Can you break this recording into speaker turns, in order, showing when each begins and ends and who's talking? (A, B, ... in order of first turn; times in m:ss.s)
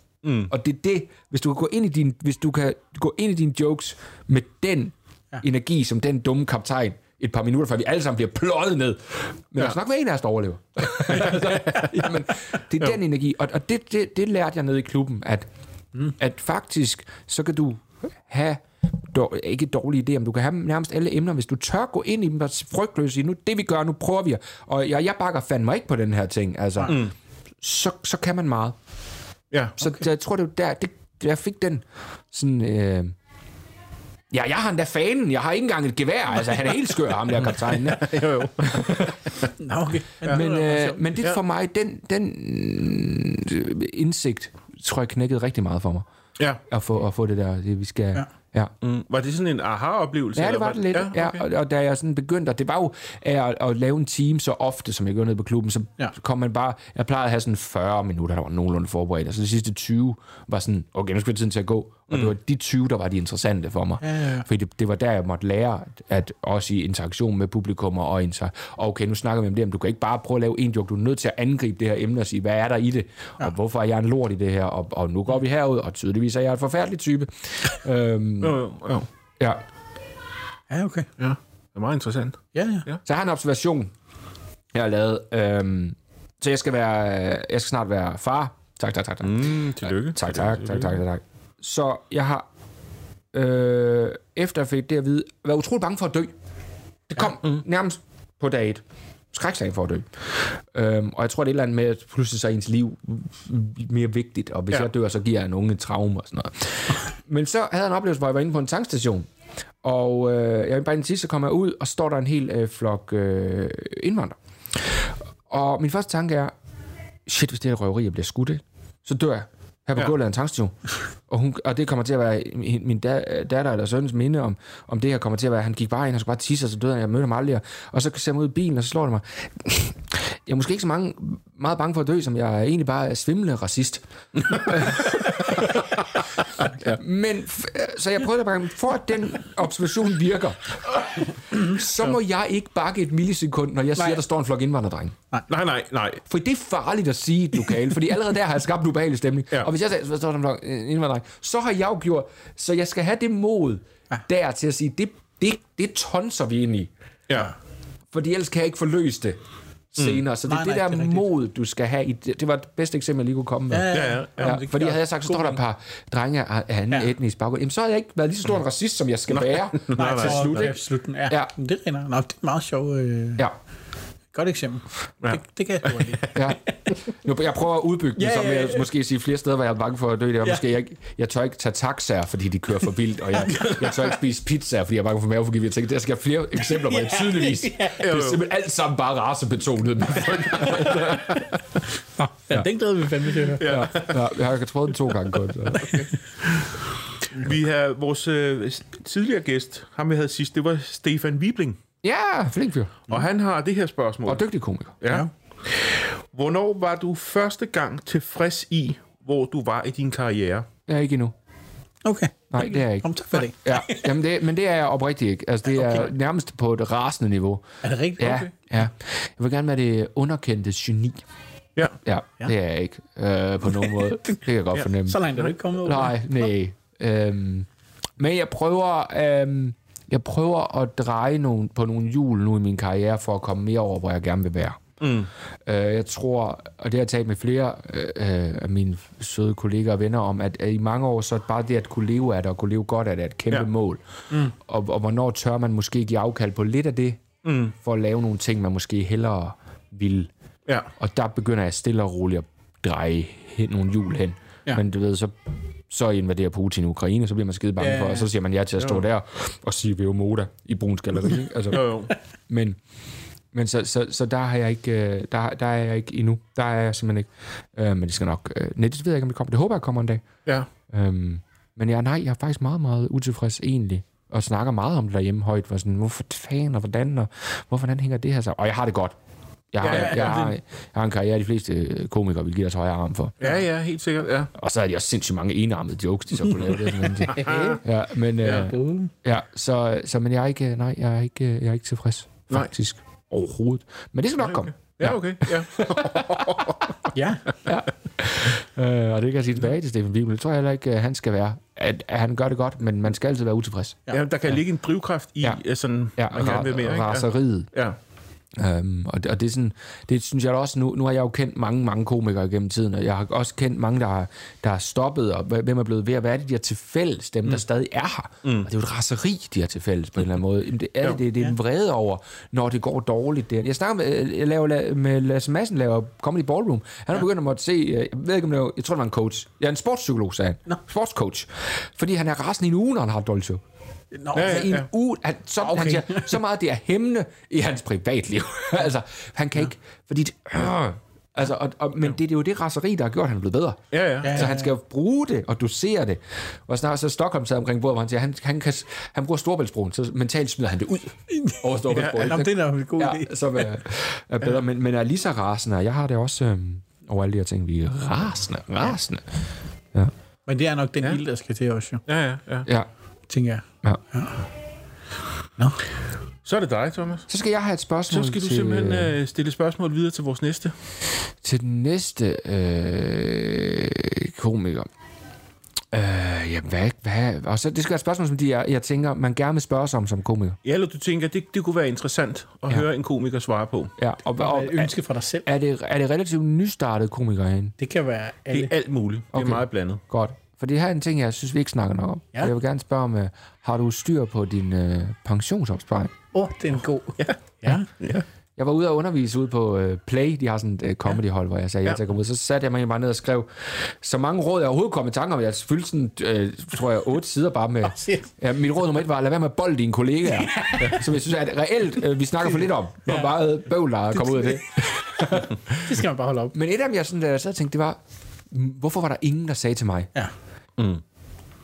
0:00.2-0:00.5 A
0:00.5-0:15.5 B
0:11.3-0:11.9 A
0:16.2-0:27.1 B
0:26.9-0:27.1 A
0:27.6-0:28.8 B
0:29.5-0:29.8 A
0:29.8-0:33.2 B
0:34.3-0:39.2 B
0:37.5-0:39.5 A
0:39.6-0:41.0 C
0:40.2-0:46.1 B
0:46.7-0:48.7 B
0:48.8-0:51.4 A
0:50.4-1:18.6 B
1:04.0-1:04.5 C
1:18.4-1:19.1 A
1:20.7-1:21.1 C
1:21.2-1:23.0 A
1:22.5-1:22.9 C
1:23.0-1:23.9 B
1:24.7-1:32.5 B
1:29.2-1:31.0 A
1:33.3-1:36.3 B
1:37.1-1:49.3 B
1:49.8-1:56.5 B
1:57.3-2:00.8 B
2:01.3-2:15.9 B
2:14.4-2:17.0 A
2:16.6-2:25.2 B
2:24.0-2:24.2 C
2:25.5-2:26.2 A
2:26.2-2:36.9 B
2:38.1-2:39.4 B
2:39.9-2:51.5 B
2:40.0-2:40.2 A
2:40.4-2:41.2 C
2:43.7-2:45.6 C
2:43.9-2:44.6 A
2:49.3-2:50.7 A
2:50.0-2:53.4 C
2:54.3-2:56.7 C
2:55.2-2:56.4 A
2:56.3-3:11.5 B
2:58.2-2:58.9 C
3:03.5-3:03.9 A
3:06.6-3:08.0 C
3:08.0-3:08.4 A
3:10.6-3:11.2 C
3:12.2-3:13.8 C
3:13.6-3:14.3 A
3:13.6-3:16.0 B
3:15.7-3:16.0 A
3:15.8-3:16.2 C
3:17.4-3:21.8 A
3:22.0-3:23.0 B
3:23.1-3:24.4 A
3:24.3-3:25.0 B
3:25.0-3:30.7 A
3:25.0-3:25.3 C
3:30.9-3:31.4 B
3:32.0-3:34.1 C
3:32.5-3:37.6 B
3:35.7-3:36.1 C
3:37.8-3:38.5 C
3:38.2-3:41.2 B
3:38.2-3:38.5 A
3:42.0-3:45.2 B
3:45.0-3:46.2 C
3:45.8-3:54.8 B
3:55.0-3:55.3 A
3:55.7-4:10.3 B
4:07.4-4:07.7 A
4:11.0-4:15.3 B
4:15.9-4:21.9 B
4:17.8-4:18.3 C
4:21.7-4:22.1 A
4:22.5-4:22.8 B
4:23.5-4:39.2 B
4:39.7-4:43.4 B
4:39.8-4:40.4 A
4:39.9-4:40.6 C
4:43.4-4:44.5 A
4:44.6-4:56.6 B
4:47.2-4:47.8 C
4:47.3-4:47.8 A
4:48.4-4:48.7 A
4:48.5-4:49.1 C
4:54.4-4:56.8 A
4:57.1-4:57.5 C
4:57.6-5:04.1 B
5:04.1-5:08.0 A
5:06.2-5:07.7 B
5:08.6-5:33.6 B
5:18.4-5:18.7 A
5:34.1-5:34.7 C
5:34.3-5:59.3 B
5:34.3-5:34.9 A
5:35.6-5:36.3 C
5:43.9-5:44.5 A
5:44.2-5:44.7 C
5:51.3-5:53.7 C
5:51.9-5:52.2 A
6:00.5-6:02.0 C
6:02.1-6:02.7 A
6:02.6-6:02.9 B
6:03.3-6:04.4 C
6:06.4-6:07.3 A
6:07.3-6:09.2 B
6:08.1-6:10.7 A
6:11.4-6:14.9 B
6:15.9-6:20.6 B
6:20.6-6:23.9 A
6:24.0-6:24.9 B
6:24.4-6:25.5 C
6:25.4-6:27.7 B
6:27.8-6:28.7 C
6:28.5-6:30.0 A
6:29.3-6:36.1 B
6:36.3-6:37.9 C
6:38.0-6:38.2 A
6:38.6-6:56.0 B
6:47.8-6:48.3 C
6:50.4-6:51.0 C
6:53.1-6:53.3 C
6:54.2-6:54.6 C
6:55.2-6:56.6 C
6:56.5-6:58.0 B
6:58.5-7:00.1 B